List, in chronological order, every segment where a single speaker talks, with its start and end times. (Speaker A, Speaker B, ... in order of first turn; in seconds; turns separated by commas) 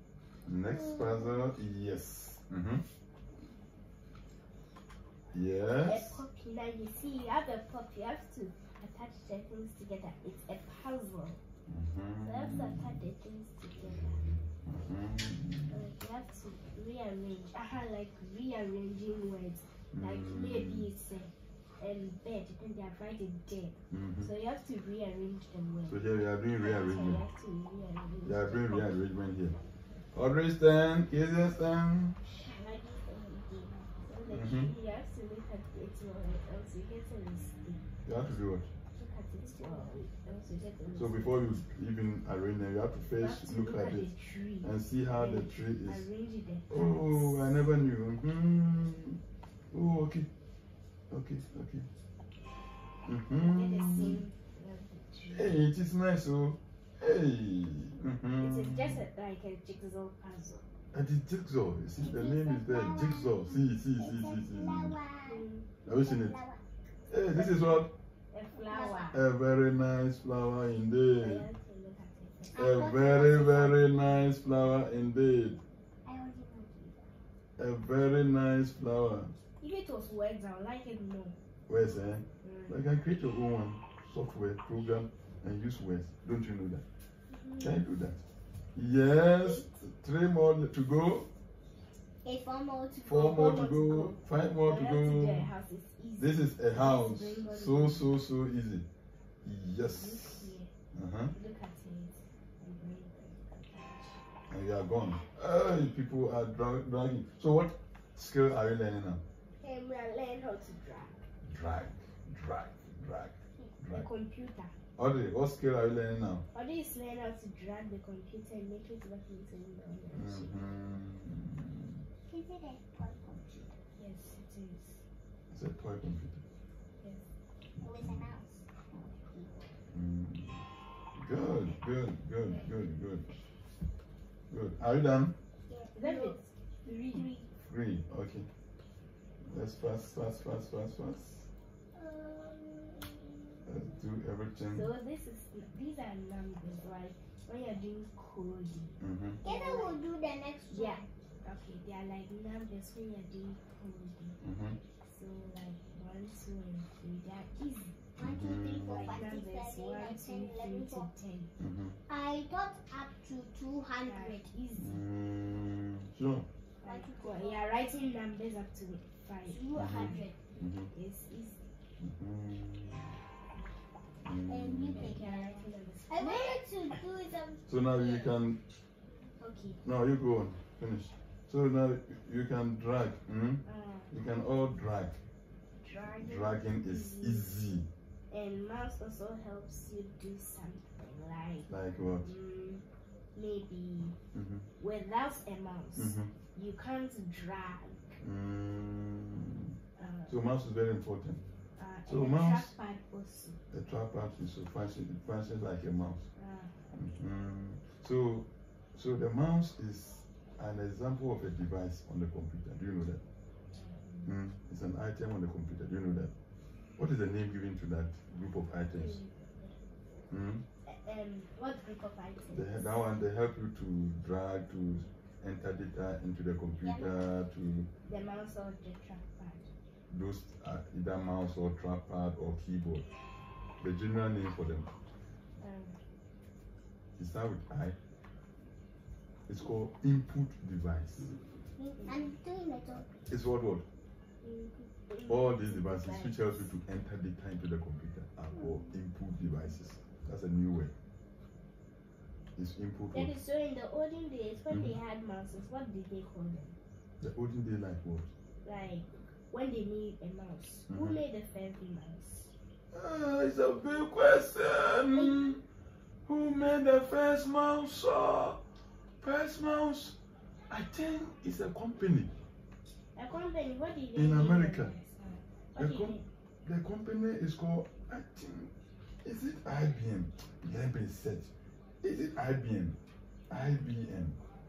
Speaker A: 0.5-2.8, Speaker B: 0.8-1.4, Speaker A: 5.3-6.2, Speaker C: 5.8-11.4, Speaker A: 11.7-13.0, Speaker C: 12.2-14.2, Speaker A: 13.9-15.8, Speaker C: 15.7-26.0, Speaker A: 19.9-20.9, Speaker A: 23.9-24.3, Speaker A: 25.9-27.2, Speaker C: 26.6-28.9, Speaker A: 28.2-29.6, Speaker A: 30.1-32.2, Speaker B: 32.3-34.0, Speaker C: 34.0-37.9, Speaker A: 34.3-34.7, Speaker A: 38.0-38.7, Speaker C: 38.9-41.4, Speaker B: 39.4-40.0, Speaker A: 41.0-46.0, Speaker C: 43.2-47.6, Speaker A: 46.7-49.2, Speaker A: 49.7-50.3, Speaker A: 51.1-51.9, Speaker A: 53.0-54.2, Speaker C: 53.4-55.6, Speaker A: 55.3-59.0, Speaker C: 58.4-60.6, Speaker A: 60.9-65.0, Speaker B: 62.0-66.6, Speaker C: 65.3-65.7, Speaker A: 65.8-66.4, Speaker A: 67.1-67.9, Speaker C: 67.3-67.6, Speaker C: 68.3-69.2, Speaker B: 68.5-69.2, Speaker A: 69.1-71.5, Speaker C: 71.2-72.8, Speaker B: 72.5-74.2, Speaker A: 72.5-75.6, Speaker B: 76.0-77.0, Speaker A: 77.6-79.3, Speaker C: 79.6-81.3, Speaker A: 81.7-86.8, Speaker C: 82.4-82.8, Speaker C: 87.3-87.8, Speaker A: 87.6-88.2, Speaker A: 88.7-91.3, Speaker B: 89.3-89.7, Speaker B: 92.2-93.4, Speaker A: 93.0-95.5, Speaker C: 93.1-98.1, Speaker A: 96.2-98.8, Speaker A: 99.4-101.3, Speaker C: 99.8-100.7, Speaker C: 101.3-104.2, Speaker A: 104.5-109.2, Speaker C: 109.6-111.2, Speaker A: 111.4-114.1, Speaker C: 113.9-114.7, Speaker A: 115.0-116.4, Speaker C: 116.5-120.5, Speaker A: 120.1-122.0, Speaker B: 122.3-123.7, Speaker C: 124.0-125.0, Speaker A: 125.5-126.4, Speaker C: 127.0-127.3, Speaker B: 127.8-129.6, Speaker A: 127.8-128.2, Speaker A: 129.9-130.6, Speaker A: 131.2-133.2, Speaker A: 134.5-135.3, Speaker B: 135.7-136.5, Speaker C: 135.9-137.3, Speaker B: 137.1-137.5, Speaker A: 137.7-138.5, Speaker A: 139.4-141.5, Speaker B: 141.9-143.7, Speaker A: 143.7-144.9, Speaker C: 144.7-149.9, Speaker A: 149.0-149.4, Speaker B: 149.4-151.1, Speaker C: 150.7-154.4, Speaker A: 154.4-154.8, Speaker C: 155.1-158.0, Speaker B: 158.2-161.1, Speaker A: 158.2-159.1, Speaker C: 158.7-161.5, Speaker A: 161.6-162.0, Speaker B: 162.1-164.5, Speaker C: 164.0-165.0, Speaker A: 164.8-166.4, Speaker C: 166.8-170.3, Speaker B: 166.8-167.7, Speaker B: 169.5-170.3, Speaker A: 169.7-170.9, Speaker C: 170.9-171.6, Speaker A: 172.0-173.2, Speaker A: 174.2-175.2, Speaker B: 174.4-178.3, Speaker C: 174.9-176.6, Speaker A: 177.7-178.6, Speaker C: 179.4-179.8, Speaker A: 179.8-185.2, Speaker C: 183.6-184.1, Speaker C: 185.8-187.5, Speaker A: 186.2-187.9, Speaker C: 188.3-191.7, Speaker A: 191.7-192.3, Speaker C: 192.2-194.2, Speaker A: 194.3-194.6, Speaker C: 194.8-198.2, Speaker A: 195.9-196.3, Speaker A: 198.2-199.7, Speaker C: 200.0-200.3, Speaker A: 200.3-201.4, Speaker C: 201.8-203.6, Speaker A: 202.1-202.7, Speaker A: 203.7-206.2, Speaker C: 206.3-206.9, Speaker A: 206.9-213.2, Speaker C: 213.7-214.3, Speaker A: 214.2-216.3, Speaker A: 217.0-219.2, Speaker C: 218.9-219.8, Speaker A: 220.3-220.6, Speaker C: 220.8-222.9, Speaker A: 222.5-227.9, Speaker B: 226.8-227.1, Speaker C: 228.1-229.7, Speaker A: 230.1-233.1, Speaker A: 233.8-234.9, Speaker C: 235.6-236.0, Speaker A: 237.2-237.9, Speaker A: 239.5-241.3, Speaker B: 241.8-243.2, Speaker C: 242.0-242.2, Speaker A: 243.3-243.8, Speaker C: 244.4-246.4, Speaker A: 245.3-250.9, Speaker A: 252.6-253.3, Speaker C: 253.1-256.8, Speaker A: 254.7-255.0, Speaker A: 257.2-258.3, Speaker C: 258.6-262.5, Speaker A: 260.9-261.2, Speaker A: 262.9-265.6, Speaker B: 265.1-265.5, Speaker A: 266.3-268.6, Speaker A: 269.2-270.1, Speaker A: 270.7-272.3, Speaker C: 273.1-276.2, Speaker A: 274.1-274.9, Speaker A: 275.8-278.7, Speaker A: 279.2-281.5, Speaker A: 282.0-282.9, Speaker A: 283.5-284.4